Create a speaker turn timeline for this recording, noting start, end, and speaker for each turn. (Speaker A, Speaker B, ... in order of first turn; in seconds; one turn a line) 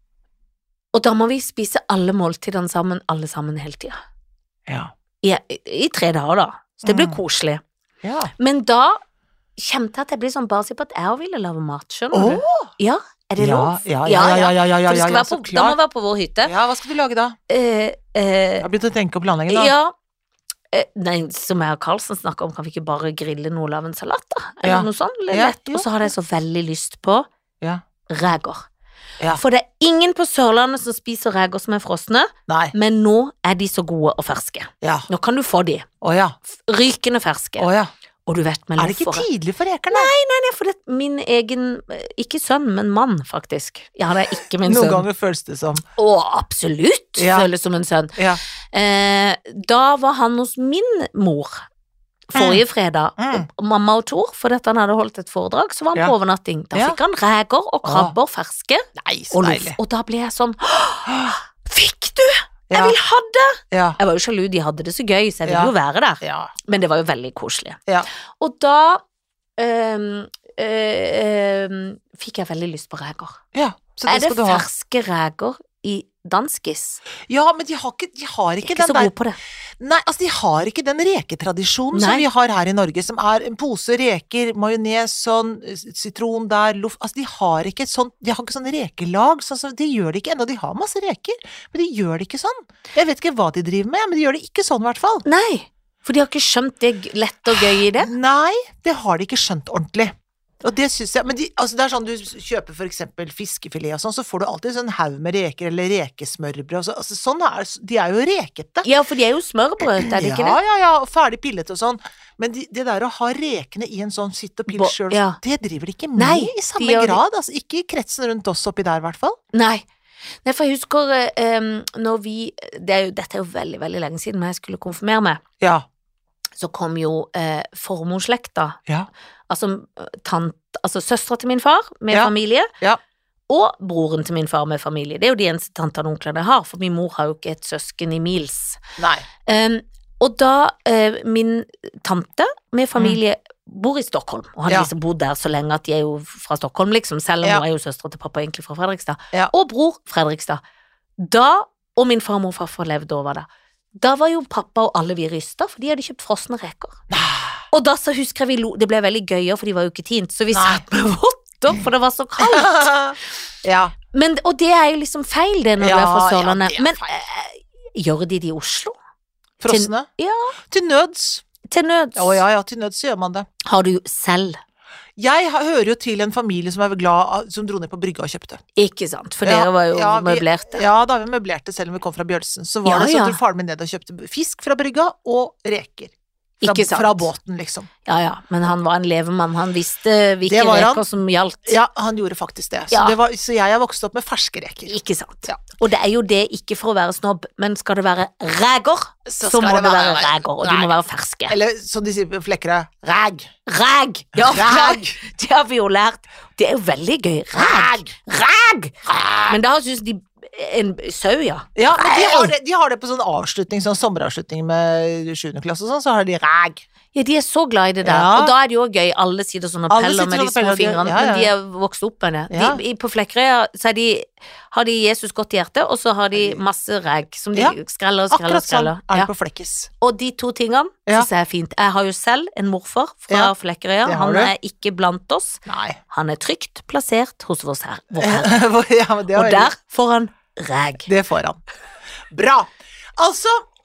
Speaker A: 0.9-4.0
Speaker A: 5.2-7.6
Speaker B: 6.8-7.2
Speaker B: 8.0-8.3
Speaker A: 8.4-9.0
Speaker A: 9.6-16.6
Speaker B: 12.1-12.7
Speaker B: 13.4-15.8
Speaker B: 16.4-17.4
Speaker A: 17.5-18.7
Speaker B: 18.6-19.7
Speaker A: 19.5-19.9
Speaker A: 20.7-27.3
Speaker B: 24.6-26.1
Speaker A: 28.1-28.7
Speaker A: 29.3-35.9
Speaker B: 32.5-32.7
Speaker B: 34.8-35.1
Speaker B: 36.0-36.4
Speaker A: 36.6-37.7
Speaker B: 37.6-37.9
Speaker A: 38.3-39.3
Speaker B: 38.8-40.1
Speaker A: 39.9-45.1
Speaker B: 44.6-45.8
Speaker A: 46.0-48.2
Speaker B: 47.2-47.5
Speaker A: 48.7-51.6
Speaker A: 52.3-67.8
Speaker B: 52.4-52.6
Speaker B: 53.2-53.5
Speaker B: 56.7-57.0
Speaker B: 57.8-58.1
Speaker B: 59.0-59.8
Speaker B: 61.1-61.4
Speaker B: 62.7-63.0
Speaker B: 63.7-64.0
Speaker B: 65.5-66.5
Speaker A: 68.4-69.0
Speaker A: 69.6-73.4
Speaker B: 73.5-74.7
Speaker A: 74.1-77.0
Speaker B: 77.3-79.1
Speaker A: 78.6-79.4
Speaker B: 79.8-95.2
Speaker A: 81.9-82.3
Speaker A: 95.2-98.1
Speaker B: 97.5-108.9
Speaker A: 108.8-110.6
Speaker B: 109.8-119.4
Speaker A: 114.7-115.4
Speaker A: 116.2-117.2
Speaker A: 119.5-119.9
Speaker A: 120.4-125.4
Speaker B: 125.6-125.9
Speaker A: 126.6-128.8
Speaker A: 129.5-132.7
Speaker B: 132.1-133.0
Speaker A: 133.5-138.8
Speaker B: 139.0-139.2
Speaker A: 139.5-150.6
Speaker A: 151.2-153.5
Speaker A: 154.0-157.0
Speaker B: 157.1-157.6
Speaker A: 157.7-162.9
Speaker B: 160.5-160.8
Speaker B: 162.4-163.9
Speaker A: 164.1-169.0
Speaker B: 165.8-167.2
Speaker B: 169.6-170.1
Speaker A: 169.7-170.6
Speaker B: 170.7-171.4
Speaker A: 171.7-172.4
Speaker B: 172.2-173.5
Speaker A: 173.6-174.6
Speaker B: 175.2-178.6
Speaker A: 178.8-180.8
Speaker B: 179.4-187.9
Speaker A: 182.8-183.4
Speaker A: 186.6-187.3
Speaker A: 188.1-191.8
Speaker B: 190.5-191.1
Speaker B: 191.7-195.6
Speaker A: 192.9-193.2
Speaker A: 194.9-201.6
Speaker B: 199.3-200.9
Speaker B: 201.5-203.5
Speaker A: 203.7-208.9
Speaker B: 204.4-205.2
Speaker B: 207.5-208.2
Speaker B: 209.1-209.6
Speaker A: 209.5-212.5
Speaker B: 211.8-216.8
Speaker A: 217.1-229.3
Speaker B: 218.0-218.6
Speaker B: 219.9-221.5
Speaker B: 222.5-222.8
Speaker B: 228.3-229.9
Speaker A: 230.0-238.6
Speaker B: 234.1-234.5
Speaker B: 235.7-236.0
Speaker B: 238.1-239.7
Speaker A: 239.3-241.1
Speaker B: 241.1-241.6
Speaker B: 242.3-243.7